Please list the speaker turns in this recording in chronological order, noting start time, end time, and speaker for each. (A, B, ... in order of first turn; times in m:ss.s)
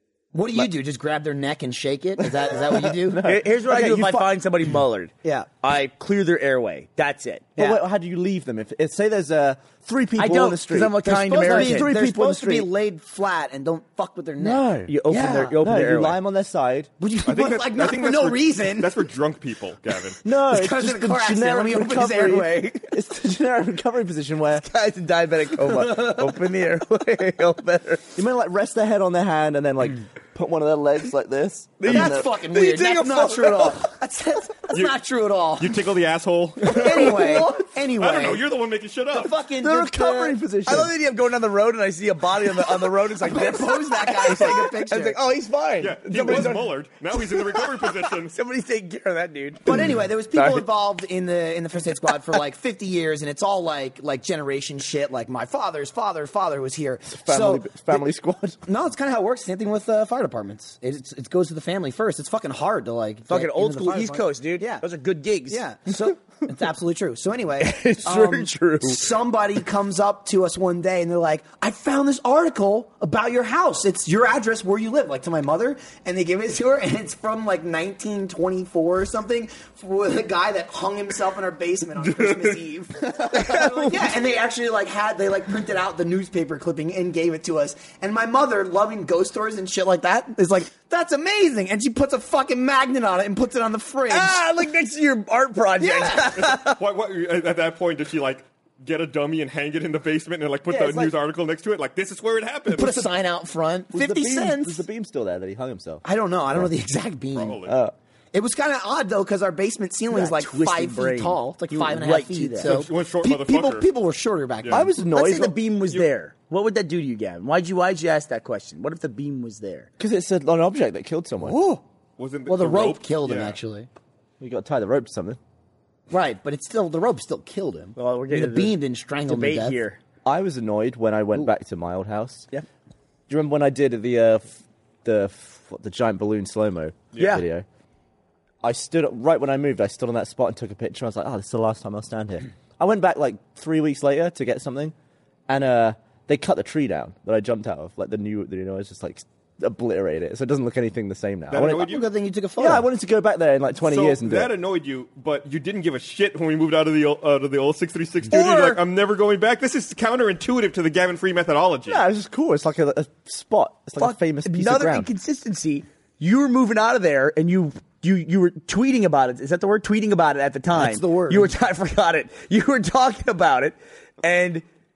0:00.3-0:03.3 A
0:02.2-0:04.3 B
0:03.2-0:07.5 C
0:07.6-0:07.8 A
0:07.6-0:12.7 B
0:10.2-0:11.9 C
0:11.1-0:15.6 A
0:14.4-0:14.9 B
0:14.9-0:16.2 C
0:15.6-0:16.9 B
0:17.0-0:19.0 A
0:17.2-0:20.2 D
0:20.2-0:24.6 B
0:20.3-0:22.9 A
0:24.6-0:28.1 C
0:28.2-0:32.3 B
0:31.8-0:33.8 C
0:31.9-0:35.8 A
0:35.6-0:39.4 D
0:36.7-0:38.5 A
0:37.1-0:37.5 B
0:39.1-0:40.4 A
0:39.6-0:40.9 B
0:40.7-0:50.6 C
0:43.0-0:45.2 A
0:45.8-0:48.4 D
0:49.6-0:58.0 A
0:57.1-0:58.6 B
0:58.7-1:04.8 A
1:03.3-1:05.6 C
1:05.5-1:34.4 A
1:07.6-1:09.1 C
1:22.0-1:22.6 D
1:23.2-1:24.1 C
1:34.1-1:36.8 C
1:35.8-1:36.4 A
1:36.4-1:43.1 D
1:40.7-1:41.1 B
1:42.7-1:44.8 A
1:43.9-1:46.7 B
1:46.0-1:47.6 A
1:47.3-1:47.8 D
1:47.7-1:48.0 B
1:48.3-1:54.9 A
1:50.1-1:52.8 C
1:52.6-1:53.9 D
1:54.6-1:54.9 D
1:54.7-1:55.6 B
1:55.1-1:59.9 C
2:00.0-2:01.6 B
2:01.4-2:01.8 A
2:02.2-2:03.6 D
2:02.5-2:03.9 A
2:04.4-2:05.4 B
2:06.1-2:09.8 A
2:08.0-2:10.0 C
2:10.2-2:12.5 B
2:13.3-2:17.7 B
2:17.2-2:17.4 C
2:18.6-2:24.9 B
2:25.5-2:31.9 B
2:31.5-2:32.1 D
2:31.6-2:32.9 A
2:32.6-2:34.5 B
2:33.8-2:42.0 D
2:38.3-2:38.8 C
2:41.9-2:45.1 B
2:44.0-2:54.6 C
2:50.7-2:51.5 A